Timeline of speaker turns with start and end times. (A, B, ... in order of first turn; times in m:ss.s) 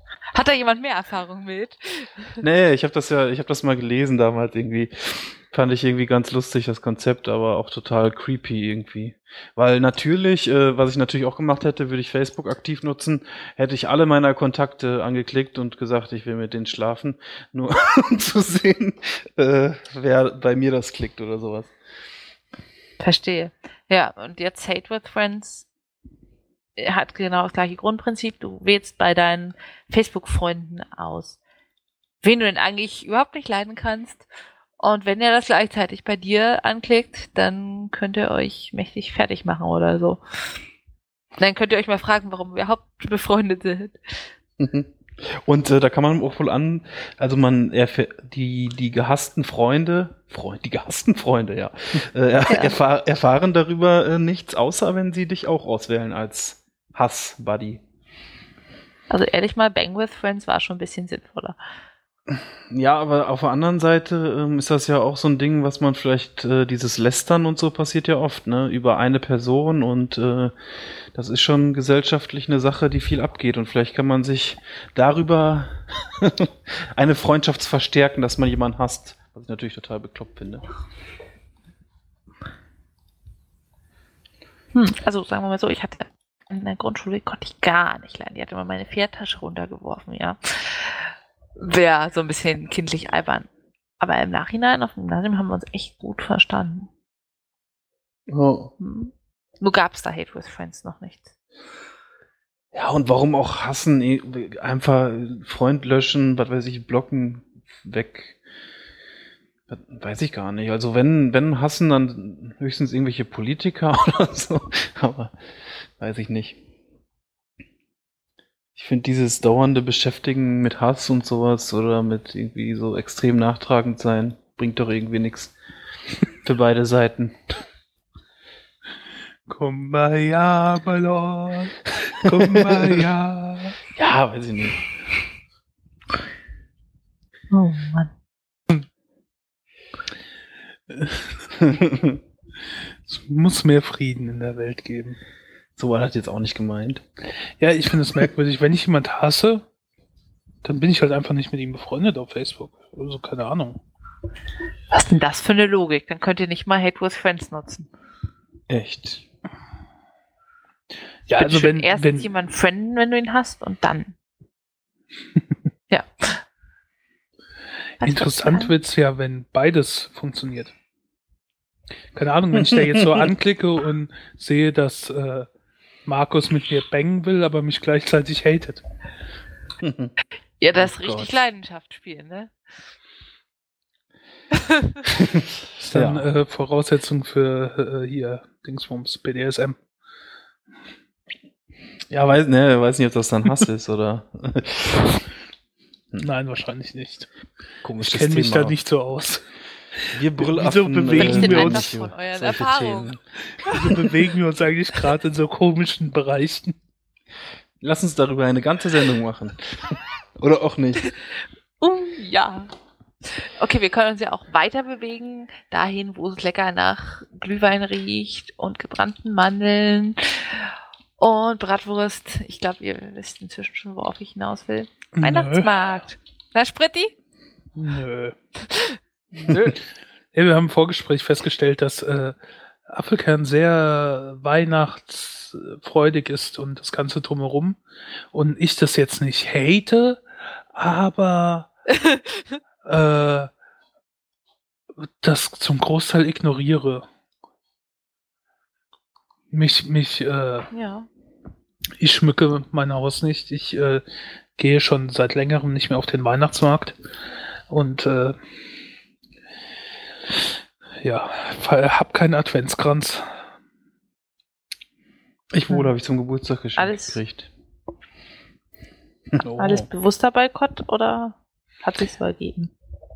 0:00.3-0:02.4 A
0:02.4-0:21.7 B
0:23.0-0:25.7 A
0:26.8-0:31.4 A
0:32.2-0:34.3 A
0:34.8-0:40.6 A
0:41.4-0:44.3 A
0:44.6-0:57.8 B
0:52.5-0:52.8 A
0:59.1-1:01.6 A
1:02.3-1:20.6 B
1:24.7-1:33.5 A
1:34.0-1:36.9 A
1:38.3-1:38.7 B
1:38.8-1:41.3 A
1:42.7-1:48.4 B
1:49.7-1:55.3 B
1:56.0-1:56.6 B
1:58.8-2:05.5 B
2:06.4-2:07.6 B
2:09.5-2:13.8 C
2:12.4-2:13.0 B
2:13.9-2:14.8 B
2:17.5-2:18.1 A
2:21.6-2:22.2 B
2:23.1-2:25.2 C
2:25.8-2:27.0 B
2:27.6-2:29.6 C
2:30.6-2:33.8 C
2:34.9-2:37.9 A
2:38.7-2:39.2 B
2:41.3-2:42.3 C
2:41.4-2:44.1 A
2:45.9-2:46.4 A
2:48.0-2:48.7 A
2:48.0-2:50.7 C
2:52.1-2:55.5 C
2:52.5-2:53.3 B
2:56.0-2:58.8 C
2:59.8-3:00.1 B
3:00.6-3:02.5 A
3:00.7-3:01.3 B
3:04.6-3:04.9 A
3:05.1-3:06.2 B
3:05.8-3:09.8 C
3:12.1-3:15.2 B
3:16.2-3:17.3 C
3:17.8-3:18.7 B
3:18.0-3:21.9 C
3:20.1-3:23.2 B
3:21.1-3:23.1 A
3:23.6-3:26.8 C
3:23.6-3:24.0 A
3:27.8-3:31.0 B
3:31.8-3:32.7 A
3:33.2-3:47.1 A
3:45.1-3:45.7 C
3:47.8-3:48.4 C
3:48.7-3:49.7 A
3:50.3-3:52.4 C
3:52.9-3:57.8 C
3:58.3-4:00.2 C
4:00.7-4:01.7 C
4:01.9-4:02.4 A
4:02.8-4:03.5 C
4:05.0-4:07.0 C
4:09.5-4:10.7 C
4:10.7-4:11.1 A
4:12.0-4:14.0 C
4:14.6-4:17.0 C
4:17.7-4:18.4 C
4:21.0-4:23.3 C
4:25.5-4:27.5 B
4:26.8-4:27.2 A
4:29.4-4:29.9 C
4:29.6-4:32.7 A